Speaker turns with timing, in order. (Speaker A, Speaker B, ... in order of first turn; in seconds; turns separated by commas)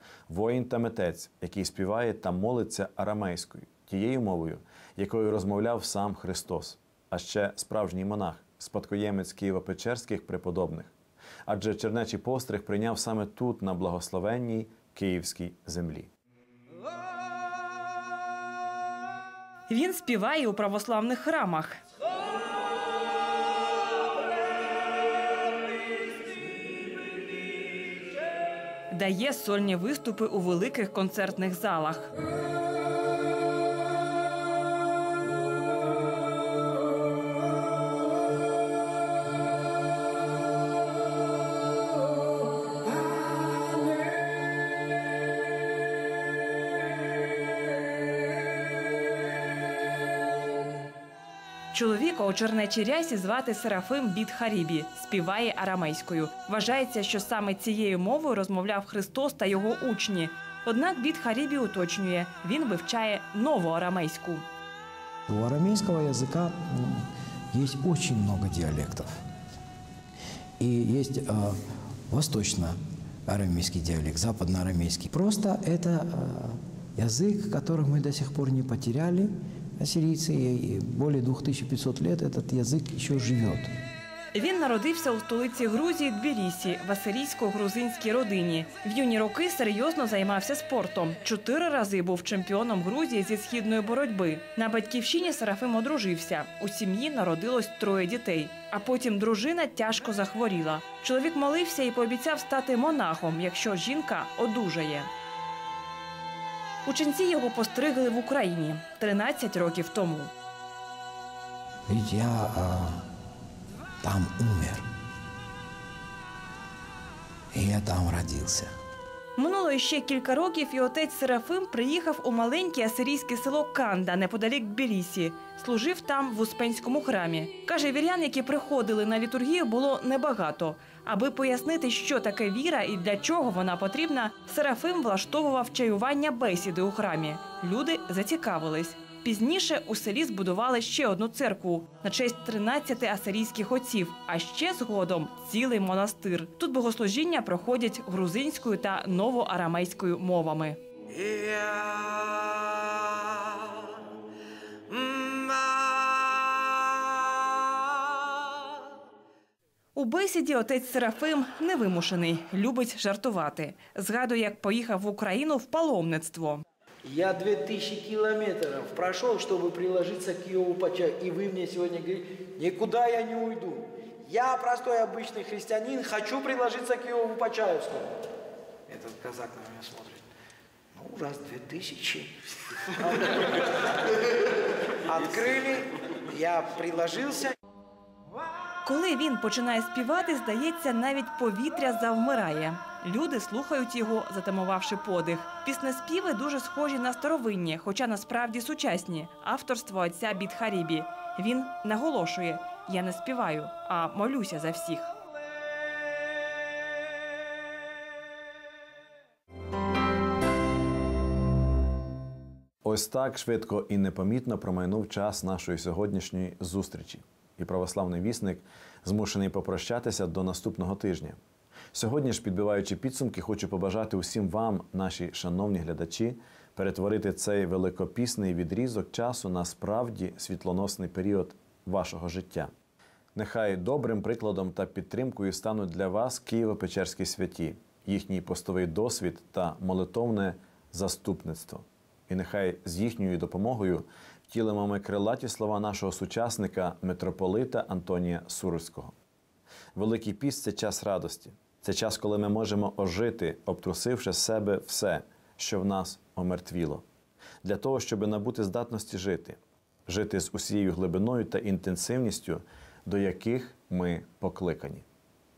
Speaker A: 0.3-10.9, Speaker A: 11.5-16.1, Speaker B: 19.7-21.8, Speaker B: 28.9-32.1, Speaker B: 51.7-64.5, Speaker C: 65.3-69.2, Speaker C: 70.6-83.7, Speaker B: 84.3-105.1, Speaker B: 106.8-110.3, Speaker C: 111.9-113.0, Speaker C: 114.0-114.8, Speaker C: 117.5-118.7, Speaker B: 119.3-150.8, Speaker D: 151.1-152.9, Speaker D: 154.9-156.2, Speaker B: 159.9-166.6, Speaker D: 167.0-178.2, Speaker D: 178.9-180.2, Speaker D: 180.9-182.4, Speaker D: 183.0-183.5, Speaker D: 185.1-187.5, Speaker B: 188.8-205.1, Speaker A: 212.8-221.4, Speaker A: 221.9-232.7, Speaker A: 233.3-249.1, Speaker A: 249.9-257.0, Speaker A: 257.6-265.0